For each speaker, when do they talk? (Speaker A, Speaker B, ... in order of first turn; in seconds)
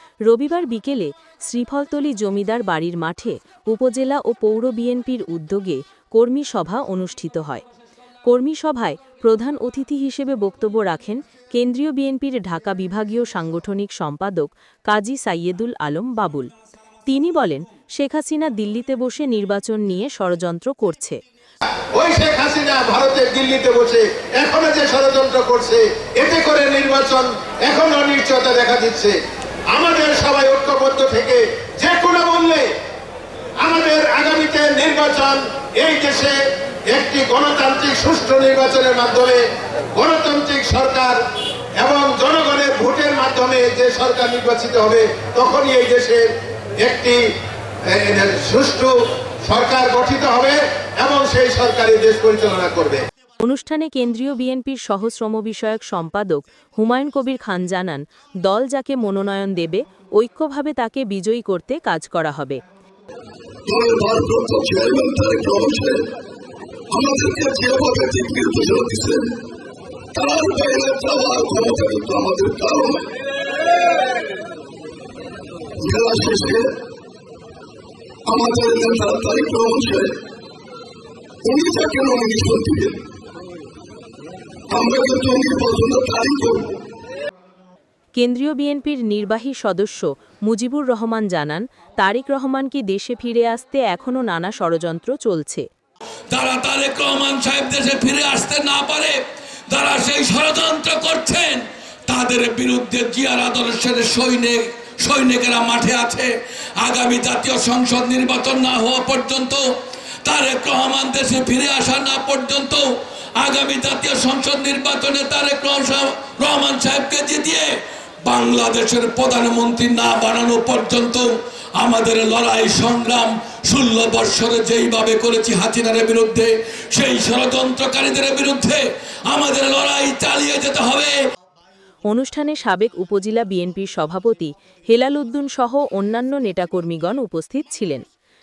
Speaker A: 0.3-7.6, 8.3-16.5, 17.1-21.2, 53.4-62.6, 88.1-95.7, 132.1-138.0
Speaker B: 21.9-29.1, 29.7-32.7, 33.6-36.3, 36.9-39.4, 39.9-41.2, 41.8-46.2, 46.8-47.2, 47.9-48.9, 49.4-53.0
Speaker C: 63.7-66.0, 66.9-69.3, 70.1-73.1, 75.8-76.7, 78.2-80.2, 81.4-83.0, 84.7-86.7
Speaker D: 96.3-99.2, 99.7-109.6, 110.2-112.9, 113.4-117.7, 118.2-131.2